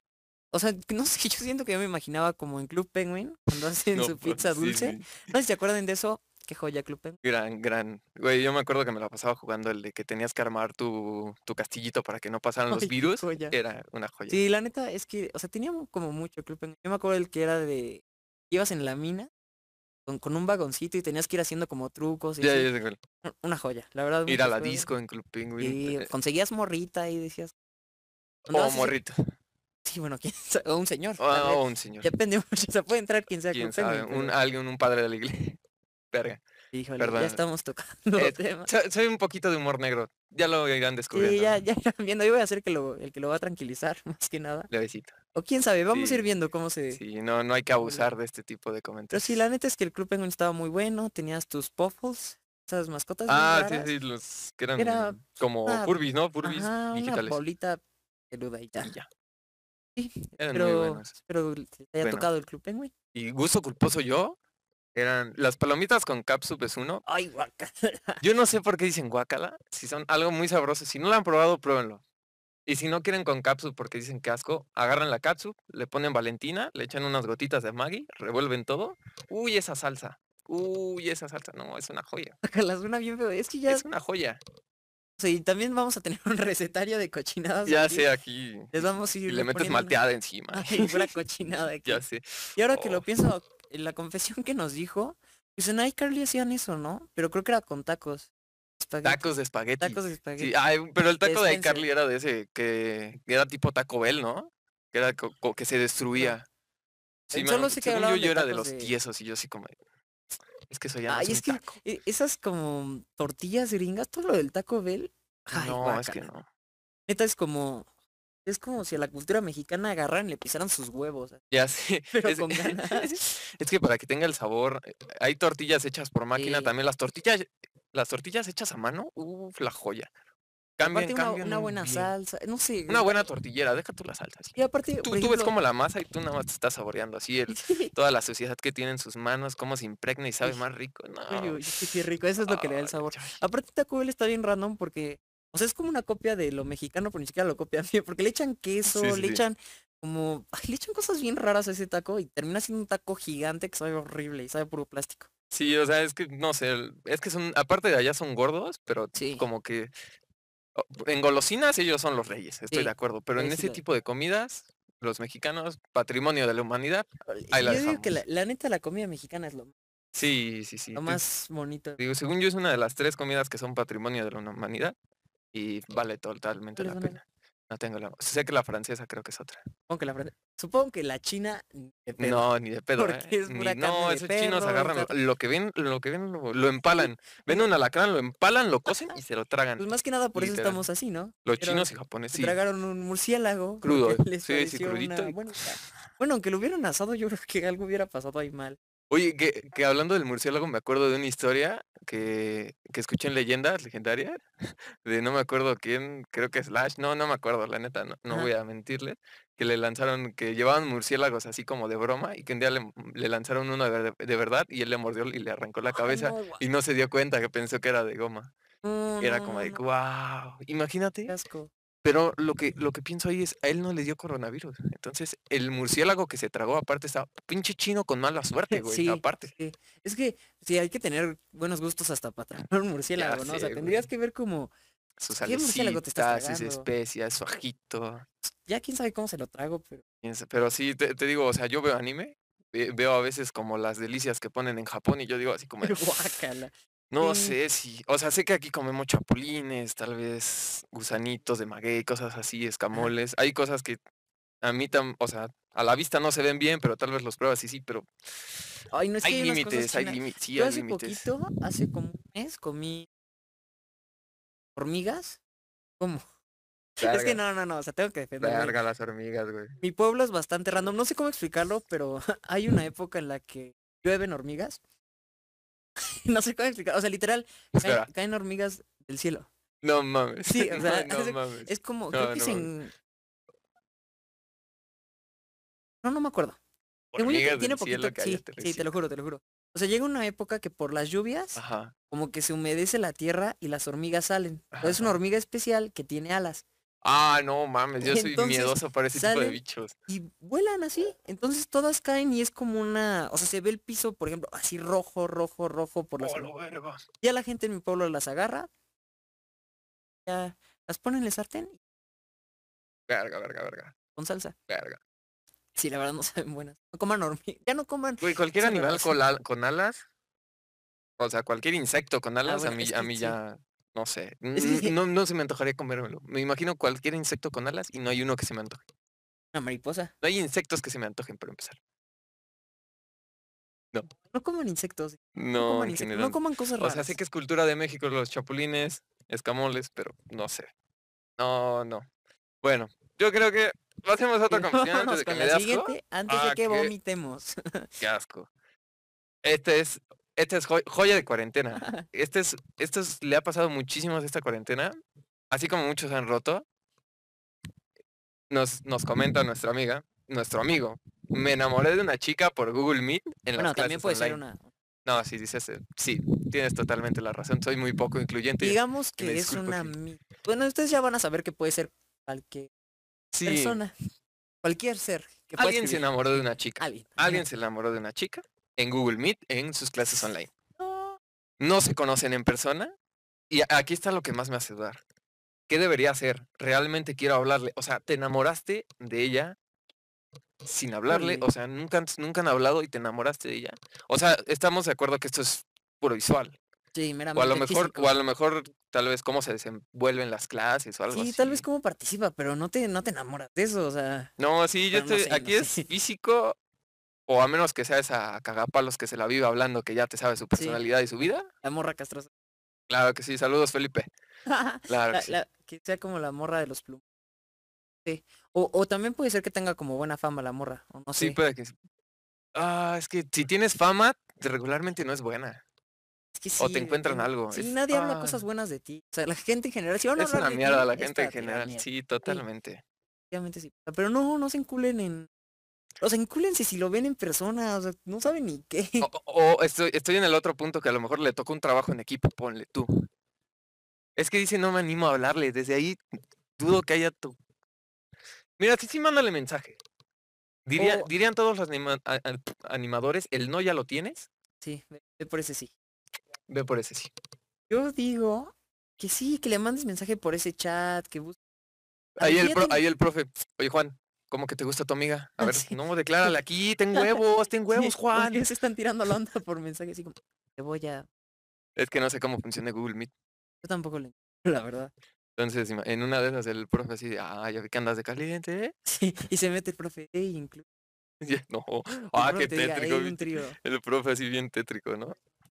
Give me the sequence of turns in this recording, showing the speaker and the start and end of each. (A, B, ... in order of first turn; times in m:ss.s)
0:00.5-0:07.2 A
0:03.9-0:05.3 B
0:07.2-0:14.4 B
0:12.7-0:13.6 A
0:14.3-0:19.3 A
0:20.1-0:22.7 A
0:22.4-0:23.0 B
0:23.2-0:24.9 A
0:24.3-0:26.1 B
0:25.6-0:27.5 A
0:28.5-0:29.2 B
0:28.5-0:29.0 A
0:29.8-0:34.4 A
0:31.2-0:32.1 B
0:33.5-0:35.6 B
0:36.1-0:36.4 B
0:36.7-0:38.7 A
0:37.0-0:37.4 B
0:38.2-0:41.6 B
0:41.1-0:44.7 A
0:44.7-0:45.2 B
0:45.3-0:47.0 A
0:45.9-0:46.3 B
0:47.0-0:49.4 B
0:47.8-0:48.1 A
0:49.1-0:53.9 A
0:53.3-0:57.4 B
0:54.8-0:58.9 A
0:58.8-0:59.1 B
1:00.0-1:02.9 A
1:00.4-1:01.1 B
1:02.0-1:02.3 B
1:03.1-1:04.4 B
1:05.0-1:07.0 B
1:07.1-1:08.2 A
1:08.2-1:12.0 B
1:12.7-1:22.4 B
1:22.4-1:23.9 A
1:23.7-1:24.4 B
1:25.2-1:28.1 A
1:27.7-1:31.1 B
1:28.7-1:30.0 A
1:30.5-1:32.0 A
1:31.9-1:33.0 B
1:32.6-1:40.5 A
1:39.0-1:46.5 B
1:41.2-1:41.9 A
1:47.3-1:48.9 A
1:47.3-1:49.7 B
1:50.7-1:51.8 B
1:51.1-1:56.2 A
1:55.5-1:56.5 B
1:57.1-1:57.9 A
1:58.4-2:01.4 A
2:01.5-2:10.1 B
2:02.1-2:03.2 A
2:06.4-2:06.7 A
2:10.8-2:12.1 B
2:10.8-2:13.2 A
2:12.9-2:21.9 B
2:14.6-2:15.5 A
2:17.5-2:17.9 A
2:21.3-2:35.3 A
2:22.4-2:23.4 B
2:28.9-2:29.4 B
2:35.5-2:39.9 B
2:39.2-2:39.5 A
2:40.8-2:48.2 B
2:42.7-2:43.8 A
2:47.3-2:49.7 A
2:50.1-2:51.2 B
2:51.0-2:52.0 A
2:52.0-2:55.0 B
2:55.5-2:59.6 B
2:56.8-2:57.2 A
2:59.9-3:05.1 A
3:02.2-3:10.8 B
3:07.0-3:07.7 A
3:09.8-3:18.8 A
3:11.5-3:12.6 B
3:13.8-3:15.4 B
3:19.1-3:38.5 B
3:35.9-3:36.6 A
3:38.8-3:39.8 A
3:39.2-3:41.3 B
3:41.3-3:41.7 A
3:42.0-3:49.5 B
3:48.7-3:54.7 A
3:53.2-3:54.1 B
3:55.2-3:58.2 B
3:55.4-3:56.9 A
3:58.4-4:00.0 A
4:00.2-4:06.0 B
4:05.8-4:07.6 A
4:07.1-4:14.0 B
4:14.6-4:18.6 B
4:18.9-4:23.1 A
4:19.2-4:21.3 B
4:24.8-4:25.4 A
4:27.0-4:28.8 A
4:27.0-4:27.4 B
4:28.4-4:29.8 B
4:29.8-4:34.8 A
4:36.0-4:39.5 A
4:37.7-4:38.1 B
4:39.8-4:42.7 B
4:40.5-4:42.9 A
4:46.0-4:46.6 A
4:47.1-4:48.9 B
4:47.2-4:56.6 A
4:51.6-4:51.9 B
4:54.7-4:55.1 B
4:57.0-5:00.0 B
4:58.0-5:06.5 A
5:06.2-5:07.0 B
5:07.2-5:08.7 A
5:10.3-5:11.8 A
5:13.1-5:14.0 B
5:14.2-5:14.6 A
5:14.7-5:15.0 B
5:15.8-5:19.2 A
5:18.2-5:20.0 B
5:21.2-5:28.8 B
5:22.4-5:23.4 A
5:24.6-5:25.0 A
5:29.5-5:30.1 A
5:30.2-5:31.8 B
5:34.3-5:37.2 A
5:35.4-5:40.7 B
5:41.4-5:42.1 B
5:42.6-5:46.9 B
5:44.5-5:47.9 A
5:48.0-5:48.5 B
5:49.4-5:55.0 B
5:51.8-5:52.0 A
5:55.5-5:56.6 B
5:58.5-6:04.4 B
6:03.6-6:04.7 A
6:05.0-6:09.9 B
6:08.6-6:12.7 A
6:13.4-6:13.8 B
6:13.4-6:13.9 A
6:14.6-6:16.1 A
6:15.6-6:20.5 B
6:16.8-6:17.5 A
6:20.8-6:21.2 A
6:21.6-6:22.9 B
6:23.5-6:25.0 B
6:25.7-6:29.6 B
6:30.6-6:36.6 B
6:31.1-6:31.5 A
6:36.9-6:38.2 A
6:37.4-6:41.6 B
6:41.1-6:44.3 A
6:44.4-6:46.6 B
6:44.9-6:45.9 A
6:47.3-6:51.5 B
6:50.5-6:50.8 A
6:51.6-6:52.3 A
6:52.9-6:54.1 B
6:54.5-6:57.0 A
6:54.9-6:55.4 B
6:58.0-7:01.4 A
7:01.2-7:01.8 B
7:02.5-7:05.6 B
7:06.4-7:12.4 A
7:06.6-7:08.4 B
7:10.2-7:12.8 B
7:13.3-7:15.3 A
7:16.0-7:19.1 A
7:19.0-7:23.0 B
7:24.2-7:26.0 B
7:26.6-7:27.4 B
7:28.6-7:29.8 B
7:30.7-7:34.3 B
7:30.8-7:31.1 A
7:34.6-7:35.7 A
7:36.5-7:37.1 B
7:37.7-7:41.4 A
7:42.2-7:42.8 A
7:42.2-7:48.4 B
7:45.4-7:46.4 A
7:47.7-7:51.1 A
7:51.8-7:53.1 B
7:53.6-7:54.9 A
7:55.4-7:58.7 B
7:58.9-8:00.6 A
8:01.2-8:05.2 B
8:02.1-8:03.6 A